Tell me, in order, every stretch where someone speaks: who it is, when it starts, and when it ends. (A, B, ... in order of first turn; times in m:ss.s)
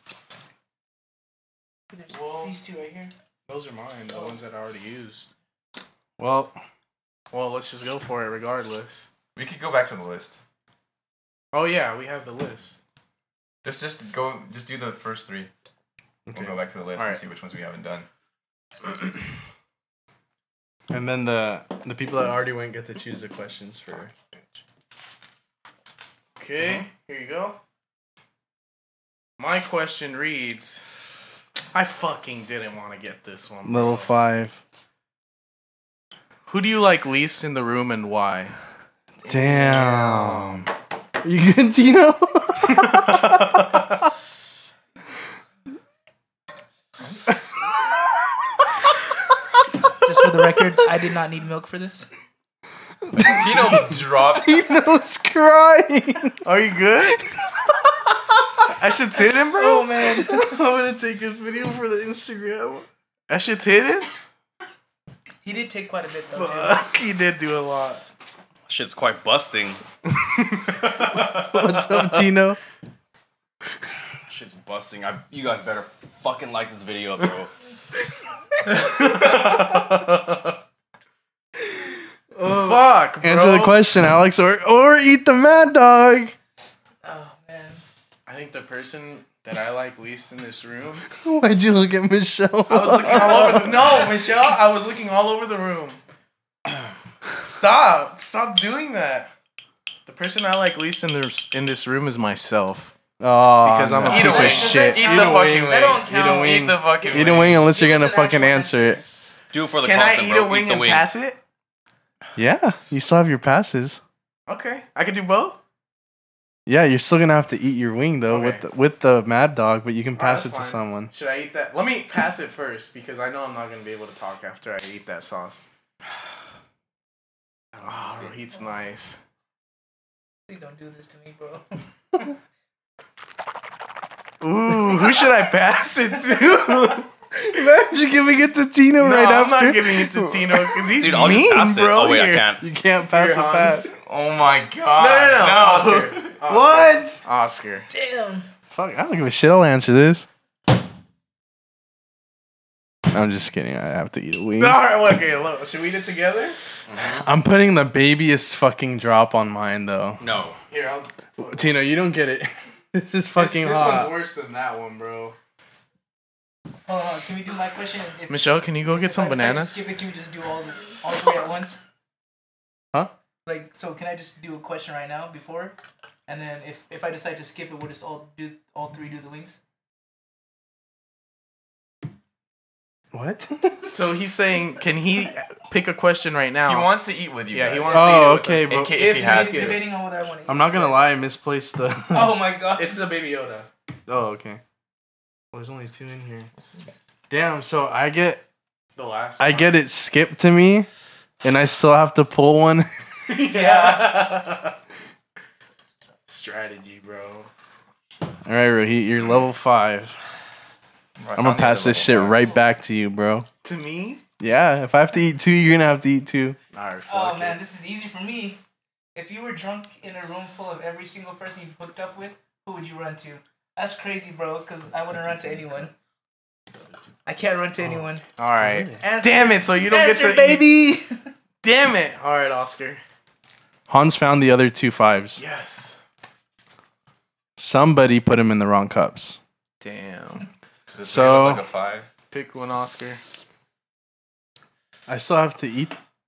0:01.9-0:03.1 A
0:02.1-0:05.3 B
0:04.1-0:04.4 A
0:06.2-0:06.6 C
0:07.3-0:09.1 B
0:09.4-0:10.4 D
0:11.5-0:12.8 B
0:13.6-0:15.5 D
0:16.3-0:16.6 C
0:16.3-0:18.1 D
0:17.0-0:17.2 B
0:20.9-0:24.1 C
0:26.4-0:27.6 B
0:29.4-0:30.8 B
0:31.7-0:34.1 B
0:33.6-0:34.6 C
0:36.5-0:38.5 B
0:39.2-0:39.8 D
0:39.3-0:40.7 C
0:39.6-0:40.7 B
0:41.2-0:43.9 C
0:47.0-0:47.7 D
0:50.0-0:52.1 A
0:53.1-0:54.8 D
0:53.2-0:56.5 C
0:56.4-0:57.2 B
0:58.7-0:59.9 B
0:59.5-1:00.6 A
1:00.2-1:02.9 C
1:03.3-1:04.1 B
1:05.4-1:06.9 A
1:06.4-1:08.0 B
1:08.7-1:09.8 E
1:11.4-1:12.6 C
1:14.3-1:17.5 E
1:22.3-1:26.3 C
1:22.5-1:23.9 B
1:27.0-1:27.8 A
1:28.3-1:31.1 B
1:31.2-1:34.0 C
1:32.7-1:36.0 B
1:37.4-1:39.3 B
1:40.1-1:43.0 B
1:43.2-1:49.0 C
1:43.6-1:45.1 B
1:44.1-1:49.0 A
1:44.1-1:47.7 D
1:49.5-1:51.1 E
1:49.8-1:51.4 B
1:52.4-1:54.0 C
1:54.5-1:55.6 B
1:56.7-2:01.1 C
1:58.3-1:58.6 B
2:00.2-2:05.7 B
2:07.8-2:09.2 B
2:10.5-2:12.3 A
2:14.4-2:17.1 B
2:17.4-2:21.3 C
2:19.0-2:22.5 B
2:21.0-2:22.6 E
2:22.6-2:23.9 C
2:23.0-2:23.9 B
2:23.9-2:26.4 D
2:24.9-2:27.9 B
2:26.4-2:27.2 C
2:27.9-2:28.5 A
2:28.7-2:30.3 C
2:33.1-2:34.8 C
2:34.6-2:36.6 B
2:36.9-2:37.3 E
2:37.2-2:40.2 C
2:40.2-2:40.6 E
2:40.7-2:41.8 B
2:41.5-2:44.2 C
2:43.3-2:45.4 B
2:46.9-2:51.8 A
2:48.3-2:49.9 B
2:53.5-2:55.8 A
2:56.3-2:59.6 A
3:03.1-3:04.0 C
3:03.9-3:07.0 B
3:06.6-3:09.9 D
3:07.5-3:10.0 B
3:07.9-3:09.0 C
3:09.0-3:11.1 A
3:10.5-3:12.4 C
3:12.1-3:13.1 A
3:12.7-3:13.7 B
3:14.1-3:14.6 C
3:15.5-3:16.5 C
3:16.6-3:17.0 D
3:17.3-3:18.4 C
3:19.0-3:19.8 B
3:19.4-3:20.9 C
3:21.4-3:22.9 C
3:23.3-3:24.7 B
3:23.4-3:24.4 A
3:26.3-3:27.5 B
3:28.4-3:30.2 C
3:31.2-3:32.6 D
3:31.4-3:33.5 C
3:33.6-3:34.2 B
3:34.4-3:36.6 C
3:36.7-3:37.6 B
3:37.1-3:38.6 A
3:39.2-3:45.9 A
3:47.2-3:48.2 A
3:48.4-3:50.8 B
3:48.6-3:49.0 C
3:49.0-3:51.3 A
3:51.6-3:53.0 B
3:53.9-3:55.4 C
3:55.4-3:56.0 B
3:57.6-3:59.4 C
3:59.8-4:00.5 B
4:00.9-4:02.1 D
4:01.1-4:01.6 C
4:02.3-4:03.2 B
4:05.1-4:06.0 C